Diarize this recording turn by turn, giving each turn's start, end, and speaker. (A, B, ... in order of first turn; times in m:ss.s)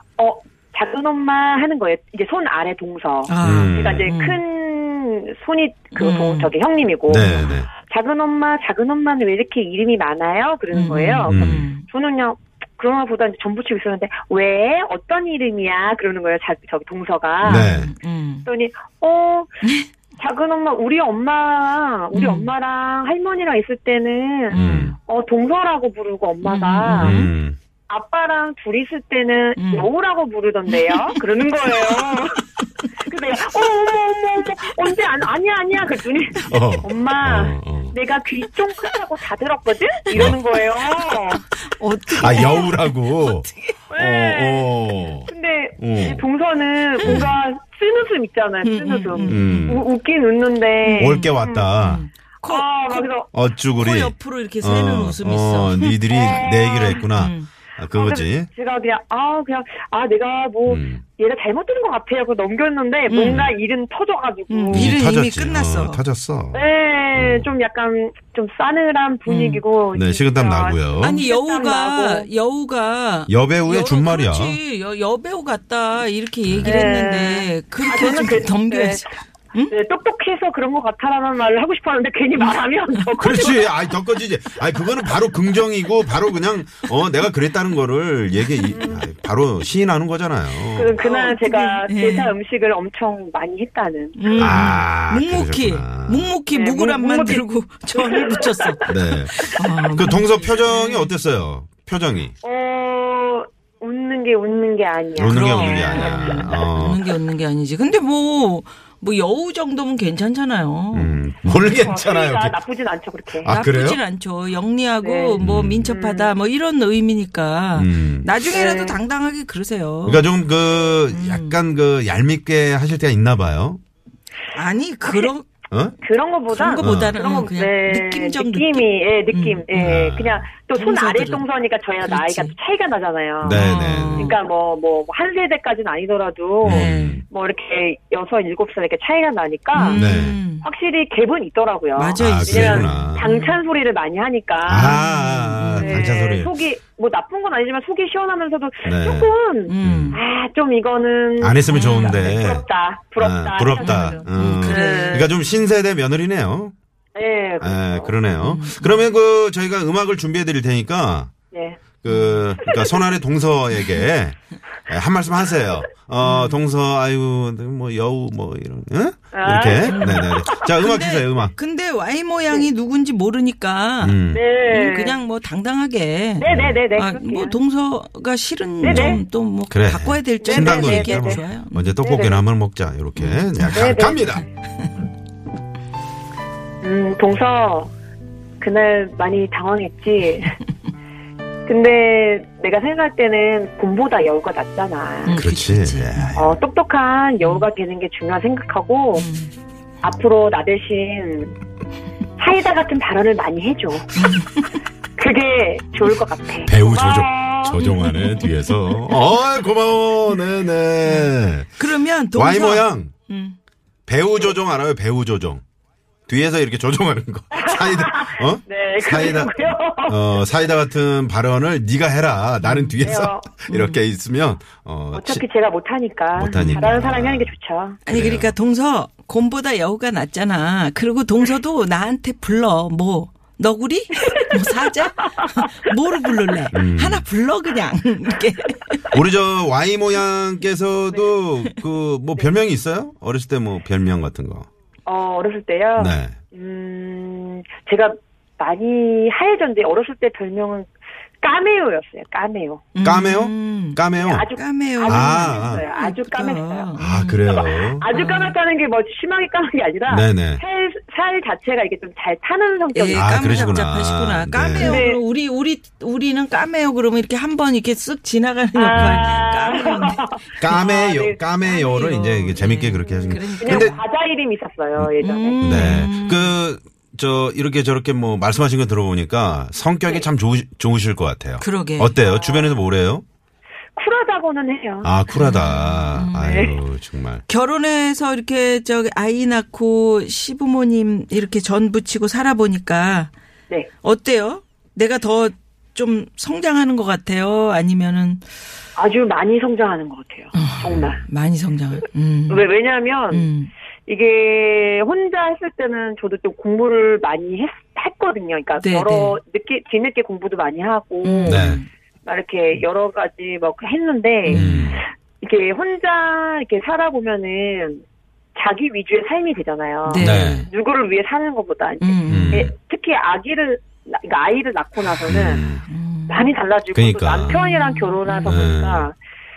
0:00.2-0:17.7 A
0:03.3-0:04.4 B
0:03.4-0:04.1 C
0:06.0-0:06.5 B
0:07.1-0:07.7 C
0:07.2-0:07.5 B
0:10.7-0:11.8 B
0:11.3-0:11.7 C
0:17.4-0:17.9 C
0:17.4-0:18.5 B
0:18.4-0:19.5 A
0:19.6-0:19.9 B
0:20.2-0:27.2 A
0:22.1-0:22.5 B
0:24.5-0:24.9 B
0:24.5-0:25.0 C
0:26.4-0:27.3 B
0:27.0-0:27.6 C
0:27.9-0:32.4 A
0:29.6-0:29.9 B
0:30.7-0:31.2 B
0:31.9-0:32.9 B
0:33.0-0:41.4 A
0:36.4-0:38.0 C
0:40.1-0:40.4 C
0:41.0-0:43.8 B
0:42.1-0:46.2 C
0:43.9-0:44.7 A
0:45.3-0:51.7 A
0:47.0-0:47.3 B
0:47.0-0:47.3 C
0:48.6-0:49.8 B
0:49.3-0:49.8 C
0:50.8-0:53.1 B
0:51.0-0:52.0 C
0:52.5-0:53.3 A
0:53.3-0:58.5 C
0:53.8-0:56.0 B
0:56.1-0:57.0 A
0:56.9-0:57.5 B
0:57.9-1:05.0 A
1:00.7-1:01.0 C
1:03.1-1:03.4 B
1:04.5-1:06.0 B
1:04.7-1:06.6 C
1:06.5-1:12.3 A
1:07.2-1:07.5 C
1:09.3-1:09.6 B
1:09.9-1:11.2 C
1:11.0-1:19.7 B
1:13.3-1:14.6 C
1:16.5-1:16.8 C
1:16.6-1:19.1 A
1:19.7-1:23.7 A
1:23.2-1:31.0 C
1:28.7-1:29.1 A
1:30.8-1:34.7 A
1:31.0-1:32.3 B
1:34.2-1:41.1 B
1:34.4-1:36.3 C
1:36.5-1:39.0 A
1:38.9-1:42.3 C
1:42.4-1:46.6 A
1:45.2-1:47.0 C
1:45.2-1:51.7 B
1:50.9-1:52.6 C
1:51.8-1:53.5 A
1:53.4-1:54.0 C
1:53.4-2:00.3 B
1:55.0-1:56.3 A
1:55.4-1:55.9 C
1:57.8-1:58.3 C
1:58.5-1:59.0 A
2:00.0-2:03.8 C
2:01.1-2:01.6 B
2:04.5-2:05.5 B
2:05.0-2:05.3 A
2:05.7-2:06.0 C
2:06.0-2:20.0 A
2:06.5-2:10.0 B
2:06.8-2:07.2 C
2:09.8-2:10.5 C
2:10.7-2:11.4 B
2:12.0-2:12.5 B
2:13.4-2:14.3 C
2:13.5-2:14.4 B
2:16.6-2:17.2 B
2:16.6-2:17.2 C
2:19.7-2:20.7 B
2:19.9-2:20.4 C
2:20.6-2:25.0 A
2:22.0-2:23.6 B
2:22.2-2:23.3 C
2:24.6-2:26.5 C
2:24.7-2:26.2 B
2:25.8-2:35.3 A
2:28.8-2:30.2 C
2:29.7-2:30.2 B
2:31.4-2:32.6 C
2:31.7-2:32.4 B
2:33.2-2:36.7 C
2:33.8-2:35.4 B
2:37.2-2:38.2 A
2:37.6-2:41.3 C
2:38.4-2:39.1 B
2:41.5-2:41.8 A
2:42.0-2:44.4 C
2:42.1-2:42.4 B
2:42.6-2:43.1 A
2:44.9-2:51.6 C
2:46.2-2:46.6 B
2:49.3-2:50.5 A
2:49.8-3:02.0 B
2:54.0-2:54.4 C
2:54.3-2:55.2 A
2:56.4-2:57.6 A
2:56.5-2:56.8 C
2:58.8-2:59.2 A
2:58.8-3:04.5 C
3:00.4-3:01.4 A
3:02.0-3:02.4 A
3:03.2-3:03.7 B
3:03.7-3:04.4 A
3:06.8-3:07.9 A
3:08.6-3:10.6 A
3:11.7-3:15.4 A
3:15.3-3:16.4 B
3:15.4-3:16.5 C
3:16.4-3:19.3 A
3:17.4-3:17.7 B
3:19.2-3:19.5 B
3:20.0-3:21.6 A
3:22.4-3:24.1 A
3:24.2-3:24.8 B
3:25.2-3:27.8 A
3:26.6-3:31.8 C
3:27.8-3:29.1 B
3:31.0-3:33.6 B
3:32.3-3:33.1 C
3:34.1-3:35.6 C
3:36.3-3:45.4 C
3:37.5-3:40.2 A
3:42.6-3:43.1 B
3:43.0-3:43.5 A
3:43.7-3:44.0 B
3:45.1-3:48.0 A
3:46.4-3:47.5 C
3:46.5-3:46.9 B
3:48.1-3:59.2 B
3:48.1-3:48.5 C
3:56.7-3:57.3 C
3:59.1-4:04.7 C
4:05.1-4:12.9 A
4:06.0-4:06.4 C
4:13.0-4:14.0 B
4:13.0-4:14.5 C
4:14.2-4:23.8 A
4:14.5-4:17.4 B
4:15.0-4:15.8 C
4:17.0-4:18.1 C
4:18.1-4:18.6 B
4:20.1-4:20.6 C
4:22.9-4:31.0 B
4:23.1-4:25.0 C
4:24.7-4:25.2 A
4:28.8-4:31.4 A
4:28.9-4:29.3 C
4:30.6-4:34.0 C
4:31.6-4:34.0 B
4:33.6-4:35.8 A
4:35.2-4:36.6 B
4:35.6-4:43.2 C
4:41.6-4:42.2 B
4:42.2-4:42.8 A
4:44.0-4:45.1 A
4:45.0-4:47.4 C
4:45.3-4:46.6 B
4:46.3-4:46.8 A
4:47.5-4:53.3 B
4:54.0-4:58.4 B
4:59.0-5:01.2 A
5:00.5-5:02.6 B
5:00.8-5:01.2 C
5:02.5-5:03.5 A
5:03.3-5:03.7 B
5:04.1-5:11.6 A
5:08.8-5:09.4 B
5:11.2-5:11.9 B
5:11.5-5:11.8 C
5:12.2-5:14.9 A
5:14.5-5:15.0 B
5:14.5-5:15.0 C
5:15.4-5:18.0 A
5:18.6-5:25.7 A
5:20.0-5:20.7 B
5:20.2-5:20.7 C
5:22.0-5:22.7 B
5:22.3-5:22.7 C
5:25.3-5:25.9 C
5:25.9-5:26.5 B
5:26.3-5:29.2 A
5:26.9-5:27.6 C
5:27.5-5:28.6 B
5:28.4-5:29.1 C